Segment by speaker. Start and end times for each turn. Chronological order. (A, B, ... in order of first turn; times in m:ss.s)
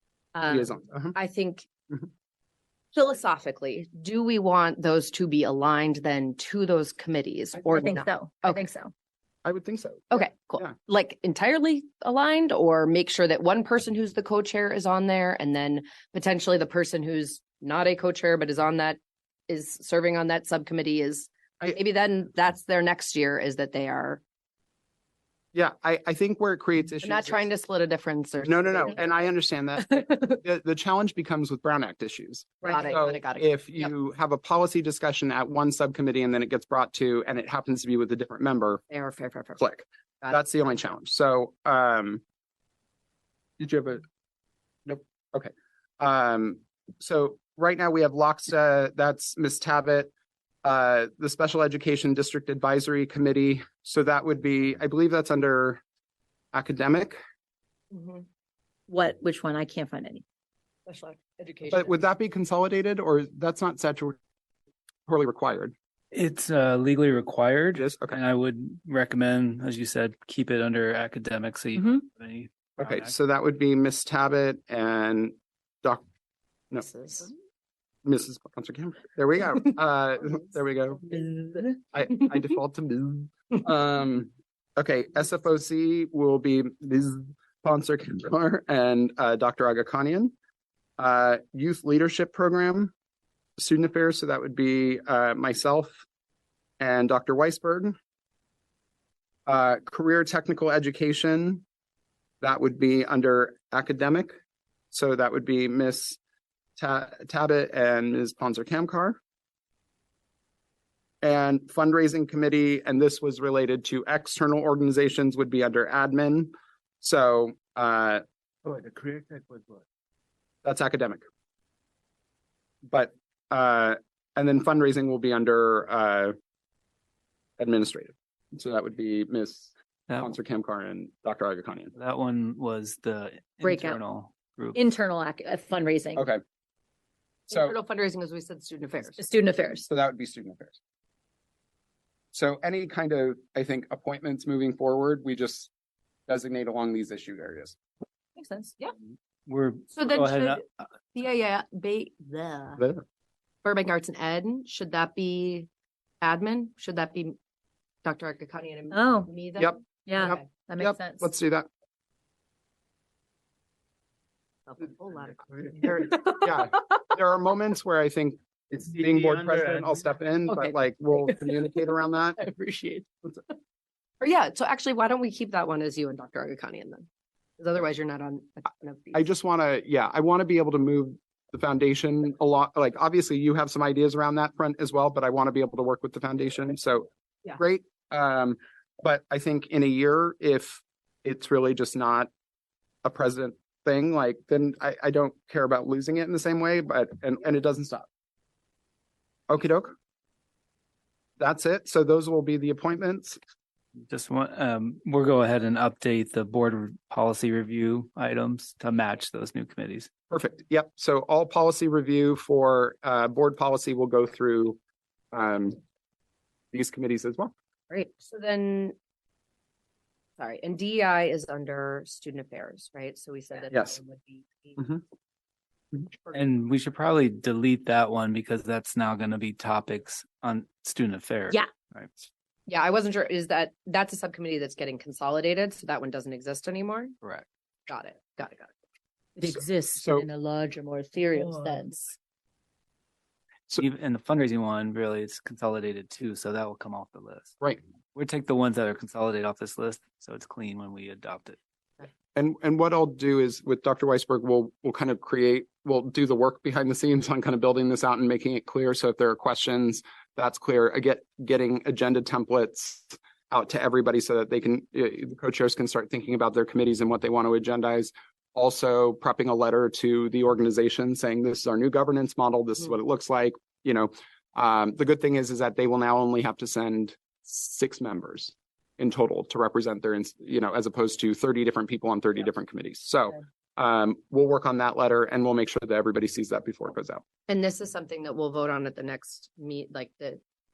0:00.4-0:01.7 A
0:00.5-0:01.2 B
0:02.9-0:08.6 A
0:07.7-0:08.9 C
0:09.4-0:10.7 B
0:10.1-0:24.2 A
0:25.5-0:27.5 B
0:27.0-0:29.1 A
0:28.4-0:38.8 B
0:32.6-0:33.9 A
0:32.6-0:32.9 C
0:38.9-0:39.6 A
0:39.6-0:42.2 B
0:40.2-0:40.6 A
0:43.6-0:44.0 B
0:44.8-0:50.1 B
0:50.6-0:55.8 B
0:56.5-0:57.2 B
0:57.9-0:58.2 A
0:58.9-1:00.2 C
1:00.8-1:02.0 A
1:01.7-1:04.2 B
1:05.1-1:05.7 B
1:06.1-1:13.1 D
1:07.7-1:08.2 B
1:12.8-1:16.0 B
1:16.8-1:17.3 A
1:18.0-1:21.0 B
1:21.1-1:21.8 C
1:21.9-1:30.3 B
1:31.0-1:32.9 B
1:33.6-1:36.0 B
1:36.8-1:37.9 B
1:39.4-1:41.6 B
1:42.4-1:44.3 B
1:44.9-1:46.2 B
1:46.8-1:49.2 B
1:51.2-1:58.2 B
1:58.6-1:59.8 E
2:00.6-2:01.2 B
2:02.9-2:06.3 B
2:07.6-2:11.9 B
2:10.1-2:10.3 D
2:11.9-2:14.8 D
2:13.6-2:14.0 C
2:14.8-2:16.2 C
2:17.5-2:19.3 A
2:19.0-2:19.9 C
2:19.9-2:20.8 B
2:22.3-2:25.7 B
2:26.3-2:27.8 B
2:28.4-2:28.7 C
2:29.4-2:30.6 D
2:29.9-2:30.6 A
2:31.1-2:32.8 A
2:33.6-2:35.7 A
2:36.2-2:37.4 A
2:38.0-2:40.4 A
2:38.9-2:39.3 C
2:39.6-2:41.7 B
2:40.1-2:41.3 C
2:44.7-2:46.8 A
2:46.2-2:52.4 B
2:48.9-2:49.8 E
2:52.4-2:53.1 C
2:54.2-2:57.1 A
2:57.6-2:59.3 A
2:59.1-3:12.3 B
3:13.0-3:18.1 B
3:19.5-3:19.9 B
3:21.4-3:23.4 B
3:24.1-3:30.1 D
3:30.3-3:34.8 B
3:35.3-3:35.8 B
3:36.7-3:37.5 B
3:37.9-3:38.9 A
3:40.4-3:44.9 A
3:43.7-3:44.0 B
3:46.2-3:46.5 A
3:46.3-3:52.1 D
3:52.7-3:57.1 A
3:57.9-3:58.7 A
3:59.4-4:02.2 C
3:59.4-4:00.3 B
4:01.3-4:01.8 D
4:03.8-4:07.5 D
4:08.2-4:11.6 D
4:12.3-4:47.2 B
4:47.5-4:50.4 A